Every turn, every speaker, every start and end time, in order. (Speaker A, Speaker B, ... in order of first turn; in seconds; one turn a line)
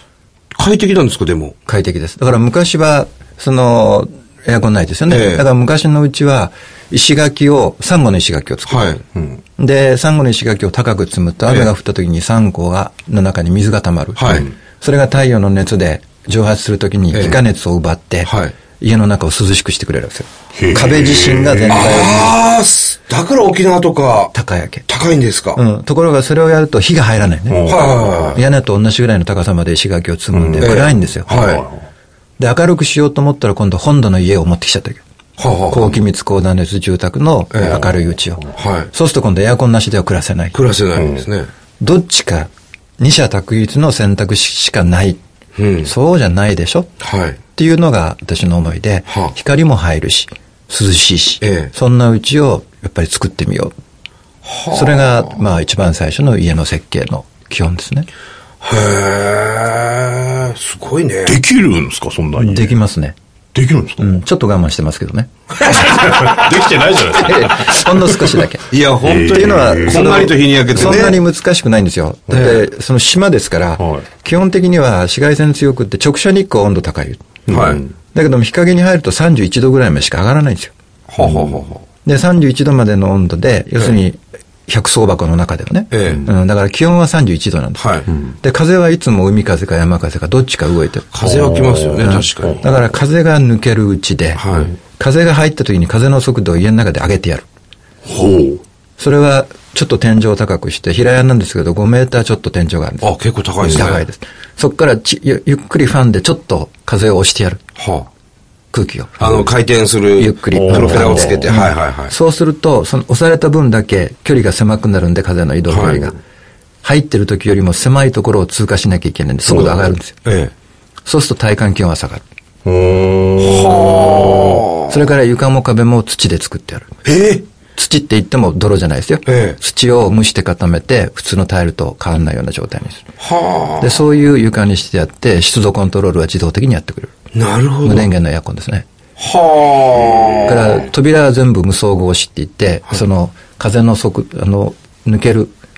Speaker A: 0.6-1.6
Speaker B: 1.7-9.0
Speaker A: 5.1-5.5
Speaker A: 8.7-9.0
Speaker B: 9.6-22.3
Speaker A: 11.5-11.7
Speaker A: 14.2-14.5
Speaker A: 17.1-17.4
Speaker A: 18.2-18.6
Speaker C: 20.6-22.3
Speaker A: 21.7-24.3
Speaker B: 24.3-24.9
Speaker A: 24.9-25.6
Speaker B: 25.6-27.7
Speaker C: 27.5-28.4
Speaker A: 27.7-28.4
Speaker B: 28.3-31.3
Speaker C: 30.3-31.9
Speaker A: 30.6-31.7
Speaker B: 32.4-35.0
Speaker A: 35.4-36.0
Speaker B: 35.7-40.6
Speaker A: 37.5-37.8
Speaker A: 38.6-38.9
Speaker A: 40.5-41.5
Speaker C: 41.0-41.2
Speaker B: 41.8-45.2
Speaker A: 45.6-45.9
Speaker B: 45.8-46.9
Speaker A: 47.0-47.4
Speaker B: 47.6-53.7
Speaker A: 49.1-49.3
Speaker A: 51.4-51.7
Speaker A: 54.4-55.4
Speaker B: 54.7-58.1
Speaker A: 58.6-61.4
Speaker C: 61.3-62.8
Speaker B: 62.4-63.2
Speaker C: 63.5-64.2
Speaker B: 64.0-65.3
Speaker C: 65.7-68.4
Speaker A: 65.7-66.5
Speaker B: 67.2-68.7
Speaker A: 68.7-71.2
Speaker C: 69.0-71.0
Speaker B: 69.3-77.3
Speaker A: 72.3-72.6
Speaker C: 73.8-74.1
Speaker C: 77.5-77.9
Speaker A: 77.5-77.8
Speaker B: 78.1-80.7
Speaker A: 81.1-81.8
Speaker C: 81.2-81.6
Speaker B: 82.0-91.3
Speaker A: 85.9-86.3
Speaker A: 87.8-88.1
Speaker A: 91.1-92.7
Speaker C: 91.2-92.7
Speaker B: 92.0-94.4
Speaker A: 94.4-94.7
Speaker B: 95.0-97.5
Speaker C: 98.1-98.6
Speaker B: 99.0-103.1
Speaker A: 103.0-104.0
Speaker B: 103.7-107.6
Speaker A: 107.8-108.1
Speaker B: 108.7-109.5
Speaker A: 109.2-112.1
Speaker B: 110.2-116.2
Speaker C: 110.5-111.5
Speaker A: 115.7-116.1
Speaker B: 116.8-120.2
Speaker A: 119.5-120.5
Speaker B: 121.1-122.2
Speaker C: 122.7-124.6
Speaker A: 123.4-124.9
Speaker B: 124.9-127.0
Speaker A: 127.0-127.4
Speaker B: 127.8-133.1
Speaker A: 129.3-129.6
Speaker A: 133.2-134.0
Speaker B: 133.8-137.1
Speaker A: 137.3-138.1
Speaker B: 137.8-138.9
Speaker A: 139.2-140.8
Speaker B: 140.4-145.5